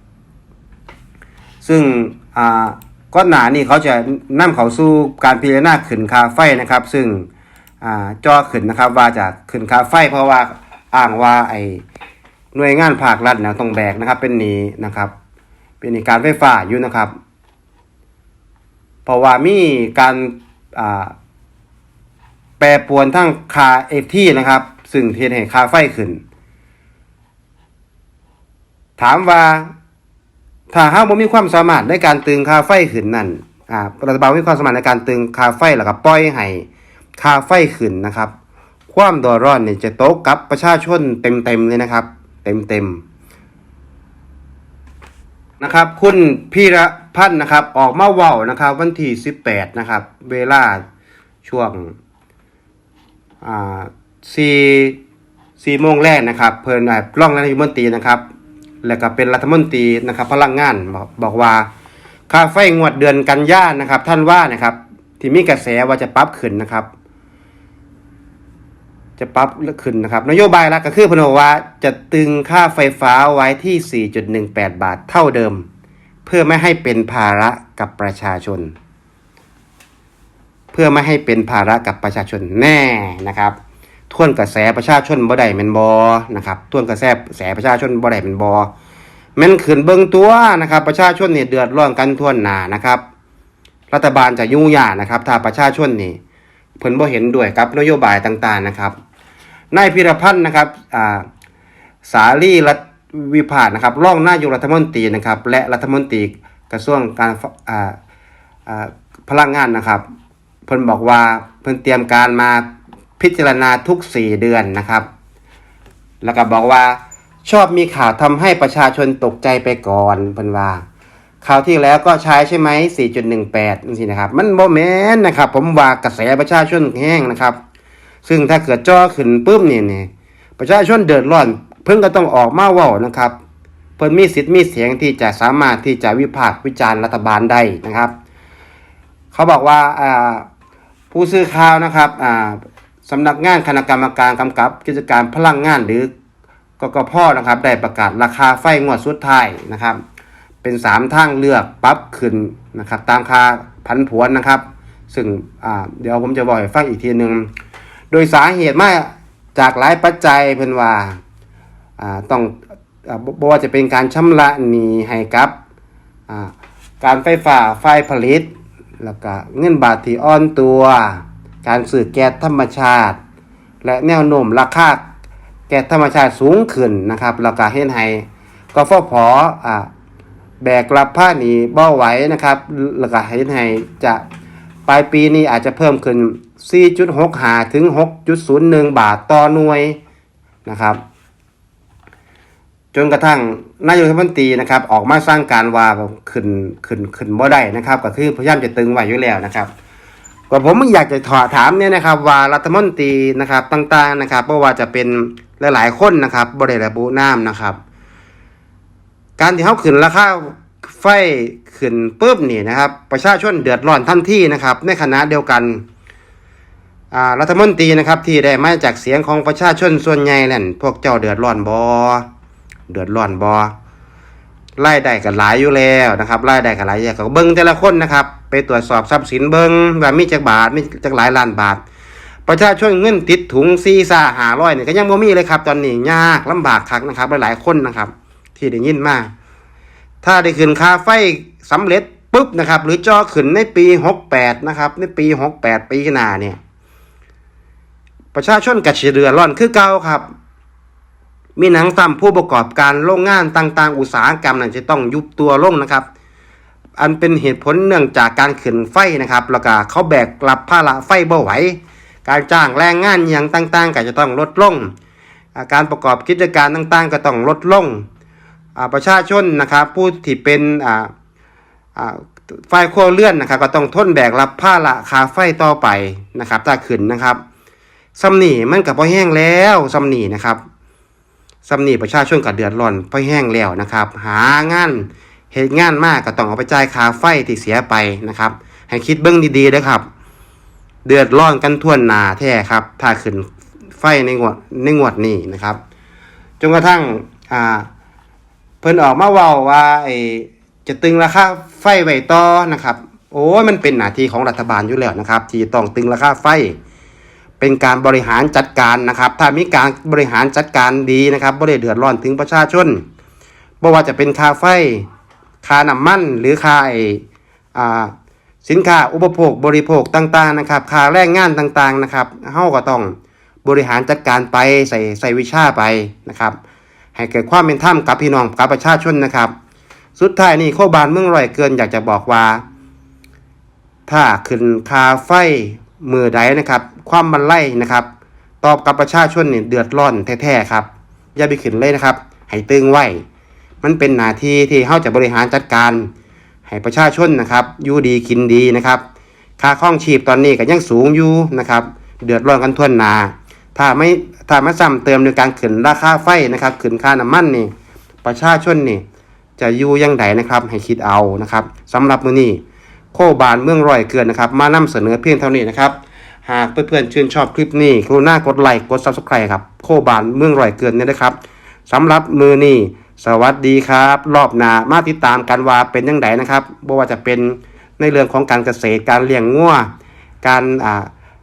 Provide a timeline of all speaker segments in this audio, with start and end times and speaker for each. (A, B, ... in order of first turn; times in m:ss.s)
0:01.6-0:07.3 A
0:07.8-0:11.8 A
0:12.5-0:15.1 A
0:15.8-0:17.1 A
0:19.0-0:21.1 A
0:22.6-0:26.2 A
0:29.0-0:29.7 A
0:30.7-0:36.6 A
0:37.2-0:38.3 A
0:38.9-0:43.0 A
0:45.6-0:50.8 A
0:51.4-0:51.9 A
0:53.4-0:55.0 A
0:55.6-0:58.2 A
0:58.8-1:01.7 A
1:02.3-1:06.9 A
1:09.2-1:15.6 A
1:16.2-1:18.7 A
1:20.7-1:23.5 A
1:24.1-1:28.7 A
1:29.4-1:33.0 A
1:33.9-1:36.2 A
1:36.8-1:38.9 A
1:39.7-1:41.2 A
1:42.0-1:47.9 A
1:48.7-1:50.0 A
1:50.7-1:52.6 A
1:53.2-1:55.1 A
1:56.2-2:00.8 A
2:01.4-2:07.6 A
2:08.2-2:13.3 A
2:14.0-2:18.1 A
2:19.3-2:20.4 A
2:21.1-2:26.1 A
2:26.8-2:30.0 A
2:30.6-2:37.5 A
2:38.1-2:41.2 A
2:42.0-2:45.5 A
2:46.3-2:48.5 A
2:49.0-2:53.2 A
2:53.8-2:55.0 A
2:55.7-2:59.9 A
3:00.6-3:04.2 A
3:04.8-3:10.0 A
3:10.6-3:11.0 A
3:12.9-3:19.7 A
3:20.5-3:27.8 A
3:29.4-3:35.8 A
3:37.1-3:42.2 A
3:42.9-3:43.7 A
3:44.8-3:51.8 A
3:52.4-3:59.3 A
4:00.2-4:06.6 A
4:08.3-4:10.3 A
4:11.6-4:16.0 A
4:17.0-4:24.9 A
4:25.5-4:28.0 A
4:28.8-4:31.1 A
4:32.0-4:37.4 A
4:38.2-4:40.6 A
4:41.6-4:50.0 A
4:51.0-4:53.4 A
4:54.0-4:55.8 A
4:56.6-4:57.9 A
4:58.8-5:06.8 A
5:07.6-5:13.0 A
5:13.8-5:15.0 A
5:15.6-5:18.1 A
5:18.6-5:26.6 A
5:27.1-5:29.5 A
5:30.2-5:32.6 A
5:34.1-5:38.1 A
5:38.6-5:43.2 A
5:43.8-5:46.1 A
5:46.7-5:49.0 A
5:49.6-5:57.7 A
5:58.2-5:59.0 A
5:59.6-6:02.6 A
6:03.1-6:11.4 A
6:11.9-6:19.9 A
6:20.4-6:21.1 A